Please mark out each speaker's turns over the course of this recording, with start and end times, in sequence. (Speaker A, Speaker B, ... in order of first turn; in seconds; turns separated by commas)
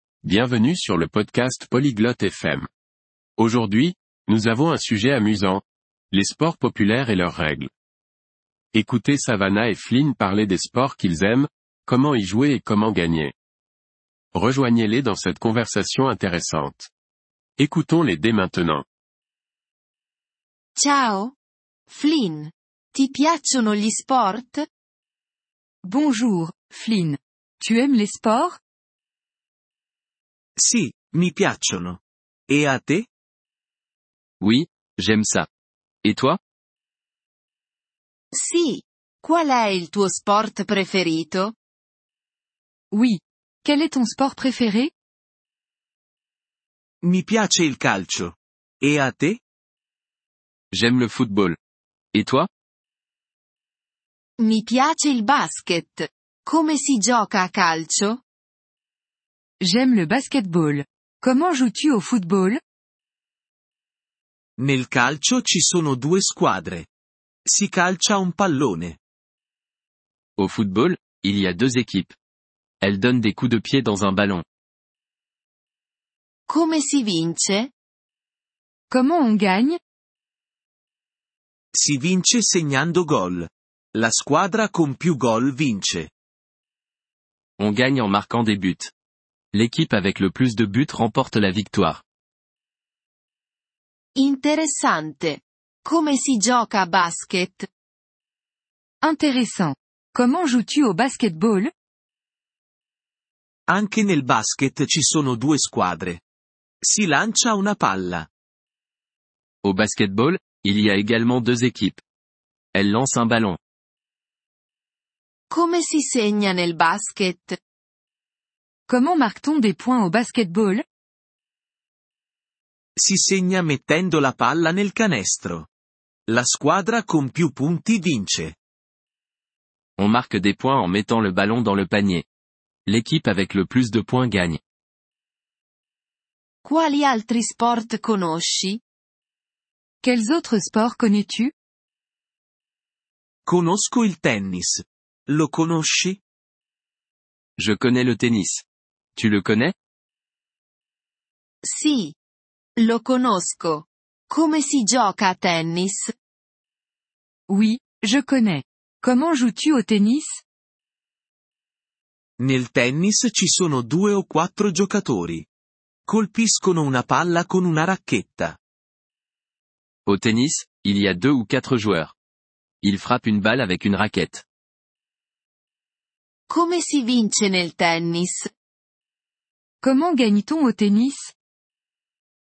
Speaker A: 0.2-2.7, Speaker A: 3.4-7.7, Speaker A: 8.7-13.3, Speaker A: 14.3-16.9, Speaker A: 17.6-18.8, Speaker B: 20.8-21.3, Speaker B: 21.9-24.6, Speaker C: 25.8-28.6, Speaker D: 30.6-33.1, Speaker E: 34.4-35.5, Speaker E: 36.0-36.4, Speaker B: 38.3-41.5, Speaker C: 42.9-44.9, Speaker D: 47.0-49.4, Speaker E: 50.7-51.6, Speaker E: 52.1-52.5, Speaker B: 54.4-58.2, Speaker C: 59.6-62.6, Speaker D: 64.6-66.9, Speaker D: 67.5-69.0, Speaker E: 70.4-72.1, Speaker E: 72.8-74.4, Speaker B: 76.5-77.7, Speaker C: 78.9-79.8, Speaker D: 81.7-86.1, Speaker E: 87.6-88.9, Speaker E: 89.5-92.0, Speaker B: 94.1-97.7, Speaker C: 99.0-101.7, Speaker D: 103.7-106.2, Speaker D: 106.8-108.3, Speaker E: 109.6-112.0, Speaker E: 112.7-113.6, Speaker B: 115.5-117.6, Speaker C: 118.9-120.8, Speaker D: 123.0-125.7, Speaker D: 126.3-128.6, Speaker E: 130.0-132.2, Speaker E: 132.8-134.6, Speaker B: 136.6-138.8, Speaker C: 140.0-141.5, Speaker D: 143.4-146.2, Speaker E: 147.6-148.6, Speaker E: 149.2-149.7, Speaker B: 151.6-152.1, Speaker B: 152.8-156.1, Speaker C: 157.5-160.4, Speaker D: 162.4-165.5, Speaker D: 166.1-168.6, Speaker E: 170.1-172.1, Speaker E: 172.8-174.4, Speaker B: 176.5-178.5, Speaker C: 179.8-181.3